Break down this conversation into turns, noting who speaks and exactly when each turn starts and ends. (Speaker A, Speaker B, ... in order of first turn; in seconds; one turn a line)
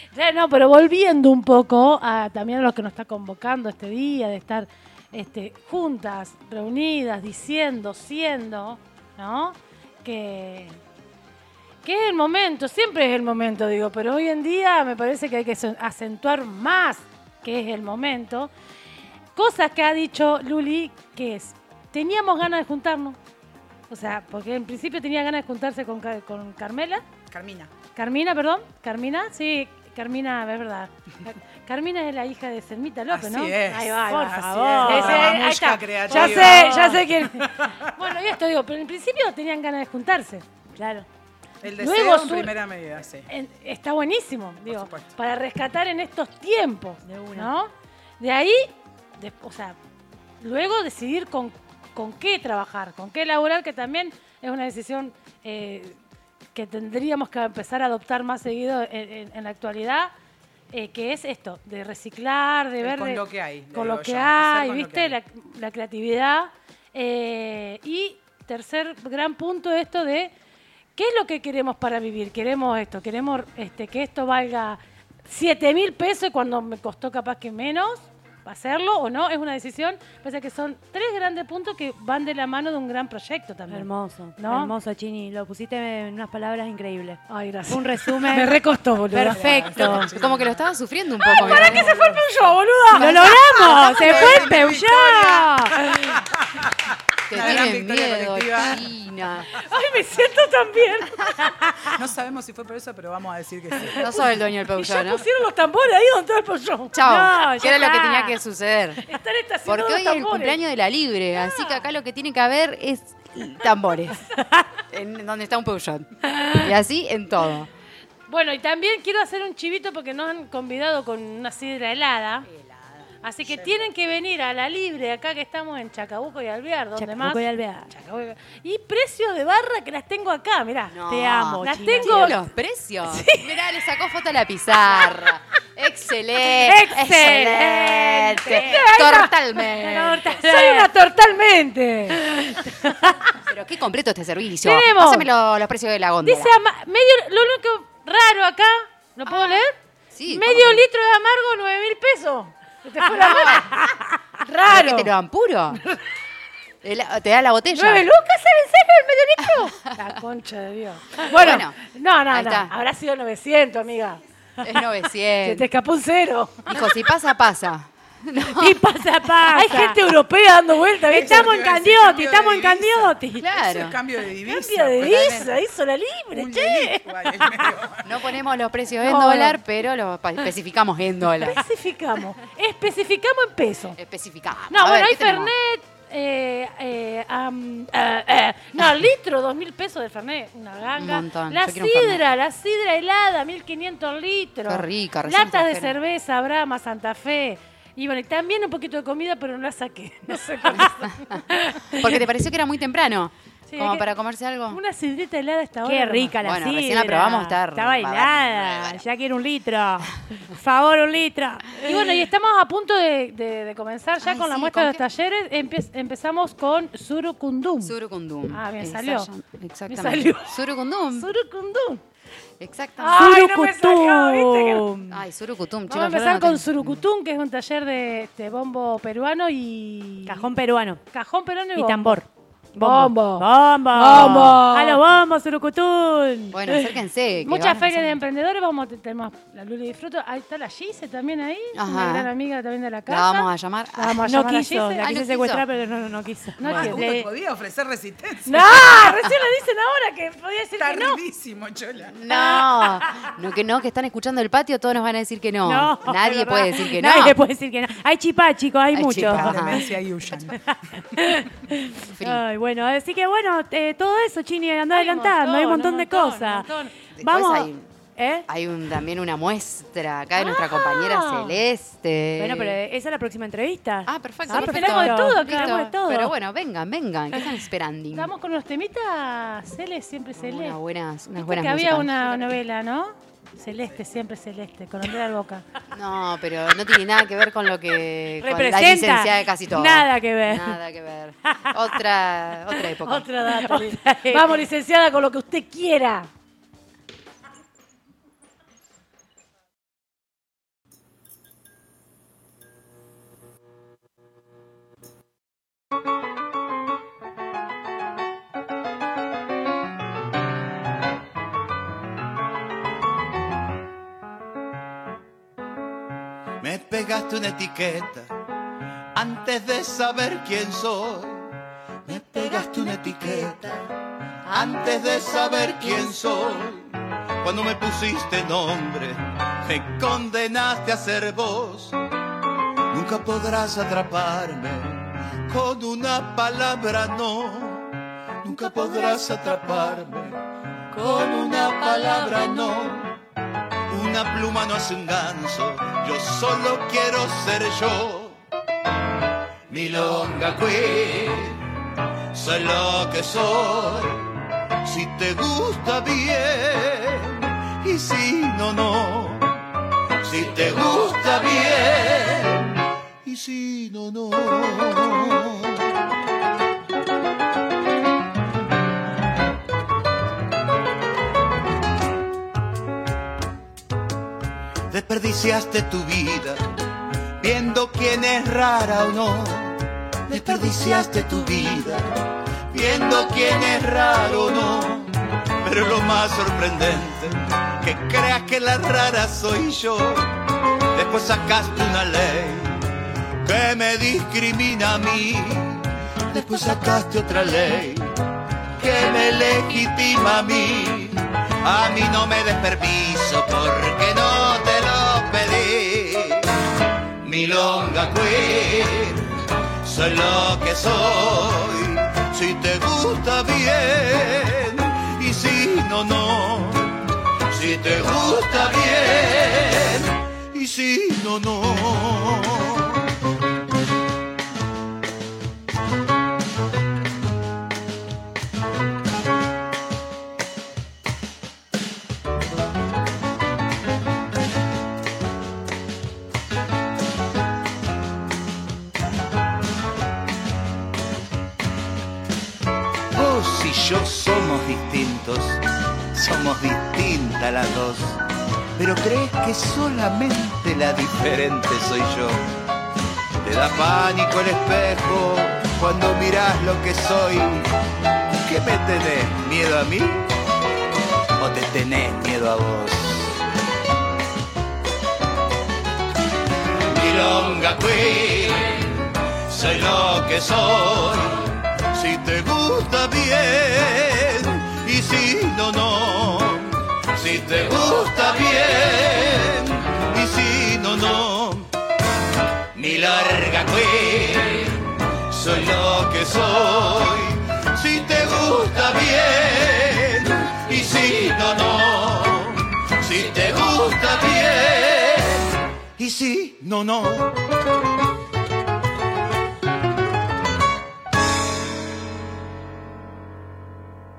Speaker A: 0.1-10.8
Speaker A: 11.8-18.5
Speaker A: 19.4-23.2
Speaker A: 23.9-27.0
Speaker B: 27.3-27.7
Speaker A: 27.9-40.5
Speaker B: 33.1-37.9
Speaker C: 34.1-35.5
Speaker C: 36.1-37.1
Speaker C: 40.8-41.1
Speaker B: 41.6-43.3
Speaker A: 41.8-42.5
Speaker A: 43.3-49.8
Speaker B: 44.7-45.1
Speaker C: 47.0-47.5
Speaker A: 50.4-56.0
Speaker A: 56.5-60.1
Speaker A: 60.7-70.3
Speaker B: 62.8-65.2
Speaker A: 71.0-84.7
Speaker C: 83.7-88.6
Speaker A: 87.3-90.1
Speaker C: 89.1-90.1
Speaker B: 89.3-90.6
Speaker D: 89.9-92.0
Speaker A: 91.2-93.2
Speaker B: 91.3-92.2
Speaker D: 92.9-94.5
Speaker C: 92.9-95.8
Speaker B: 94.0-96.8
Speaker D: 97.3-99.5
Speaker B: 97.3-98.8
Speaker A: 99.5-101.9
Speaker B: 101.9-104.2
Speaker D: 103.9-105.2
Speaker A: 104.8-107.0
Speaker D: 106.9-109.0
Speaker C: 107.0-108.4
Speaker A: 109.1-110.6
Speaker D: 109.7-114.3
Speaker A: 111.5-111.9
Speaker D: 114.9-117.7
Speaker A: 118.3-122.5
Speaker A: 123.2-132.4
Speaker B: 123.5-123.8
Speaker C: 127.0-127.9
Speaker D: 130.9-140.4
Speaker C: 131.1-132.3
Speaker A: 133.1-133.5
Speaker C: 136.7-138.8
Speaker A: 138.4-139.3
Speaker C: 139.8-140.9
Speaker A: 139.9-143.2
Speaker D: 143.5-146.5
Speaker A: 144.6-145.3
Speaker A: 146.2-149.8
Speaker D: 149.3-150.8
Speaker A: 150.3-155.1
Speaker D: 153.0-153.7
Speaker D: 154.7-155.8
Speaker D: 156.8-158.1
Speaker A: 157.7-164.2
Speaker D: 161.3-161.8
Speaker D: 162.3-162.7
Speaker D: 164.6-165.7
Speaker A: 165.4-166.7
Speaker D: 166.7-168.8
Speaker C: 168.6-170.0
Speaker A: 169.5-171.5
Speaker B: 171.1-175.5
Speaker C: 171.1-173.5
Speaker D: 173.4-174.0
Speaker A: 174.5-177.7
Speaker D: 175.0-175.5
Speaker B: 176.3-178.2
Speaker D: 178.0-181.6
Speaker A: 179.0-179.6
Speaker A: 181.4-184.0
Speaker D: 184.0-185.5
Speaker A: 184.7-202.2
Speaker D: 190.9-192.2
Speaker D: 194.7-196.0
Speaker D: 200.8-204.8
Speaker A: 203.7-204.1
Speaker A: 204.7-206.4
Speaker C: 205.8-212.0
Speaker D: 206.4-209.0
Speaker A: 211.8-218.0
Speaker D: 214.2-215.0
Speaker D: 217.8-221.3
Speaker A: 218.5-219.3
Speaker A: 219.9-220.6
Speaker A: 221.1-222.0
Speaker D: 222.6-223.3
Speaker A: 223.0-225.0
Speaker C: 223.2-225.1
Speaker D: 225.1-227.0
Speaker A: 225.9-230.5
Speaker C: 230.3-231.0
Speaker A: 231.1-232.2
Speaker C: 231.8-237.0
Speaker A: 232.8-235.0
Speaker D: 236.5-238.1
Speaker A: 237.4-245.1
Speaker D: 241.8-242.3
Speaker D: 243.1-244.2
Speaker C: 244.2-247.3
Speaker D: 245.0-245.6
Speaker A: 246.6-247.1
Speaker B: 246.7-249.2
Speaker A: 248.5-251.2
Speaker B: 250.8-252.2
Speaker D: 252.1-257.4
Speaker C: 255.7-259.9
Speaker D: 258.9-259.9
Speaker B: 259.1-260.6
Speaker C: 260.7-268.5
Speaker D: 262.1-262.4
Speaker A: 264.9-266.9
Speaker D: 267.2-267.9
Speaker D: 268.5-272.8
Speaker A: 270.4-271.6
Speaker C: 272.4-276.3
Speaker D: 274.1-278.3
Speaker A: 274.5-275.9
Speaker A: 278.1-280.8
Speaker D: 280.4-282.6
Speaker A: 281.4-285.6
Speaker D: 285.9-293.3
Speaker C: 288.4-290.8
Speaker A: 293.1-296.3
Speaker C: 293.5-294.6
Speaker E: 316.6-318.3
Speaker E: 319.1-321.5
Speaker E: 322.1-323.9
Speaker E: 324.5-326.9
Speaker E: 327.4-331.9
Speaker E: 332.9-337.9
Speaker E: 338.4-340.4
Speaker E: 340.9-343.2
Speaker E: 343.9-348.4
Speaker E: 349.7-351.6
Speaker E: 352.3-354.3
Speaker E: 354.8-359.6
Speaker E: 360.2-365.9
Speaker E: 374.9-376.6
Speaker E: 377.4-382.1
Speaker E: 382.7-385.1
Speaker E: 385.6-390.3
Speaker E: 390.9-392.8
Speaker E: 393.4-398.1
Speaker E: 398.8-406.5
Speaker E: 407.2-409.3
Speaker E: 409.8-423.0
Speaker E: 443.1-448.2
Speaker E: 448.8-452.4
Speaker E: 453.4-457.7
Speaker E: 458.4-460.3
Speaker E: 461.4-463.4
Speaker E: 466.9-481.7
Speaker E: 482.7-497.4